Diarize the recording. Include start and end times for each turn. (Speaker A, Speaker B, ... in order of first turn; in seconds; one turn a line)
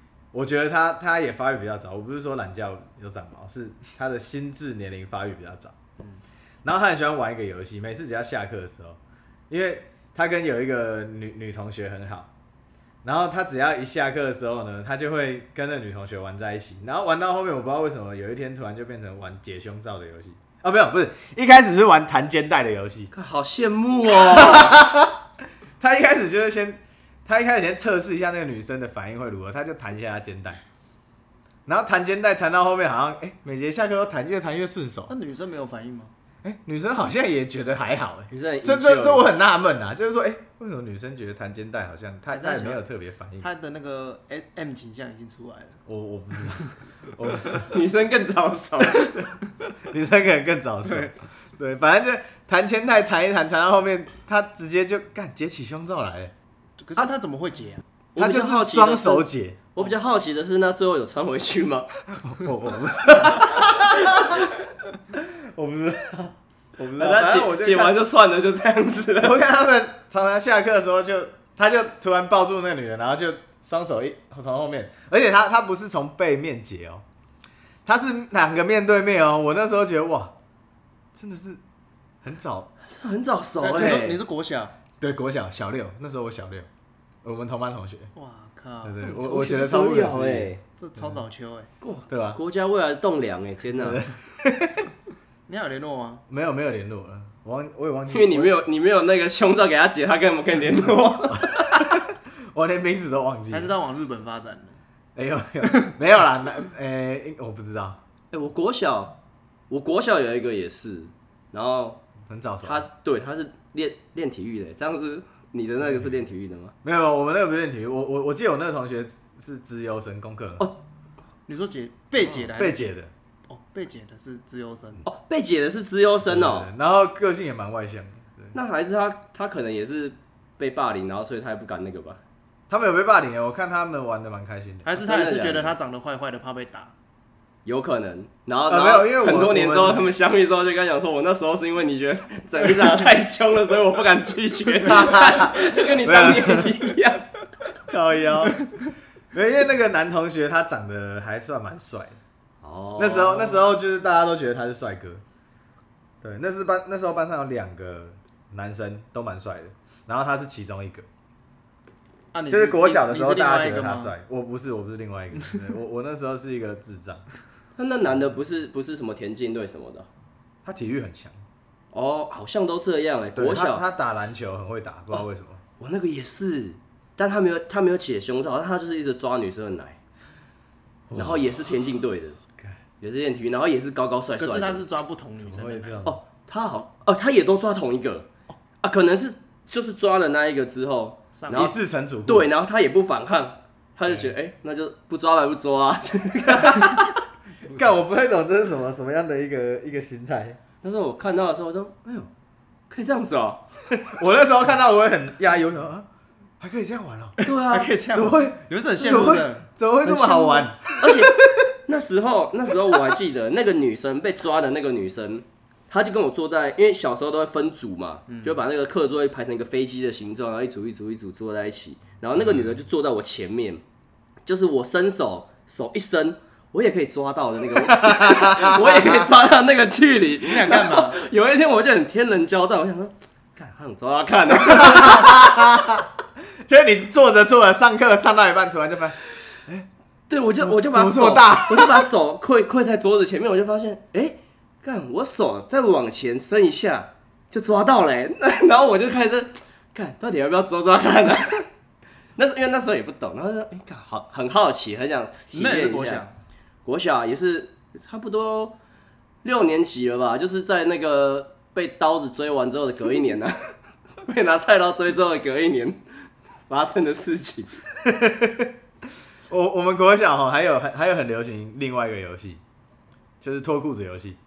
Speaker A: 0.3-5.7
Speaker A: 6.6-9.0
Speaker A: 9.5-12.3
Speaker A: 13.0-23.1
Speaker B: 23.1-24.8
Speaker A: 24.1-25.2
Speaker A: 25.8-30.6
Speaker A: 31.6-35.1
Speaker C: 35.1-36.1
Speaker A: 36.4-43.5
Speaker B: 38.3-39.3
Speaker C: 42.3-42.8
Speaker C: 43.4-45.8
Speaker A: 45.9-47.7
Speaker B: 47.7-49.3
Speaker A: 49.8-56.3
Speaker C: 50.8-51.1
Speaker C: 56.8-57.8
Speaker B: 58.1-61.9
Speaker A: 58.2-59.6
Speaker A: 62.2-64.4
Speaker B: 63.0-64.5
Speaker A: 65.1-68.0
Speaker B: 67.0-69.4
Speaker A: 69.2-77.0
Speaker A: 77.8-80.3
Speaker A: 81.1-81.6
Speaker A: 82.2-82.7
Speaker B: 82.8-84.2
Speaker C: 83.6-84.7
Speaker A: 85.0-86.7
Speaker A: 87.2-88.1
Speaker C: 88.1-89.0
Speaker A: 88.8-90.5
Speaker B: 89.0-90.6
Speaker C: 90.8-91.7
Speaker B: 91.8-94.0
Speaker A: 92.1-92.4
Speaker A: 93.7-94.9
Speaker C: 95.5-96.2
Speaker A: 96.3-98.6
Speaker B: 98.1-102.0
Speaker A: 101.3-103.7
Speaker C: 103.5-104.8
Speaker A: 105.2-108.0
Speaker B: 108.3-109.2
Speaker B: 109.7-112.0
Speaker A: 112.3-112.8
Speaker B: 112.6-116.7
Speaker A: 116.8-120.7
Speaker C: 121.5-122.9
Speaker A: 122.5-123.1
Speaker C: 123.5-125.0
Speaker B: 125.0-126.7
Speaker A: 126.2-128.5
Speaker B: 128.5-132.2
Speaker A: 132.7-135.0
Speaker C: 134.8-136.9
Speaker B: 135.0-135.7
Speaker B: 137.6-147.3
Speaker A: 138.7-140.1
Speaker A: 144.8-146.8
Speaker A: 147.9-148.6
Speaker A: 149.3-152.2
Speaker B: 152.6-153.7
Speaker A: 153.0-155.2
Speaker A: 156.2-161.1
Speaker C: 162.3-164.1
Speaker A: 162.5-167.2
Speaker B: 167.8-170.1
Speaker A: 170.6-171.4
Speaker B: 171.9-173.8
Speaker A: 173.3-175.6
Speaker B: 175.8-180.0
Speaker A: 181.1-181.4
Speaker B: 181.1-182.4
Speaker B: 183.0-184.8
Speaker C: 184.4-186.0
Speaker A: 185.4-186.2
Speaker B: 186.0-188.3
Speaker B: 188.8-197.2
Speaker C: 191.3-191.7
Speaker A: 191.5-192.4
Speaker A: 197.7-200.6
Speaker B: 200.8-202.3
Speaker B: 202.9-203.7
Speaker A: 203.9-206.1
Speaker A: 206.6-207.4
Speaker C: 207.4-210.7
Speaker B: 207.4-207.9
Speaker A: 208.1-211.5
Speaker B: 211.0-223.8
Speaker C: 218.3-218.6
Speaker A: 222.4-222.8
Speaker B: 224.4-235.6
Speaker A: 227.7-229.3
Speaker C: 230.4-231.2
Speaker A: 234.6-236.0
Speaker A: 236.6-239.9
Speaker B: 240.3-251.7
Speaker A: 240.6-242.1
Speaker B: 252.3-256.2
Speaker C: 255.5-256.3
Speaker B: 256.8-258.8
Speaker B: 259.4-263.6
Speaker B: 264.2-266.0
Speaker B: 266.7-267.8
Speaker A: 268.0-268.7
Speaker A: 269.5-272.6
Speaker A: 273.4-274.4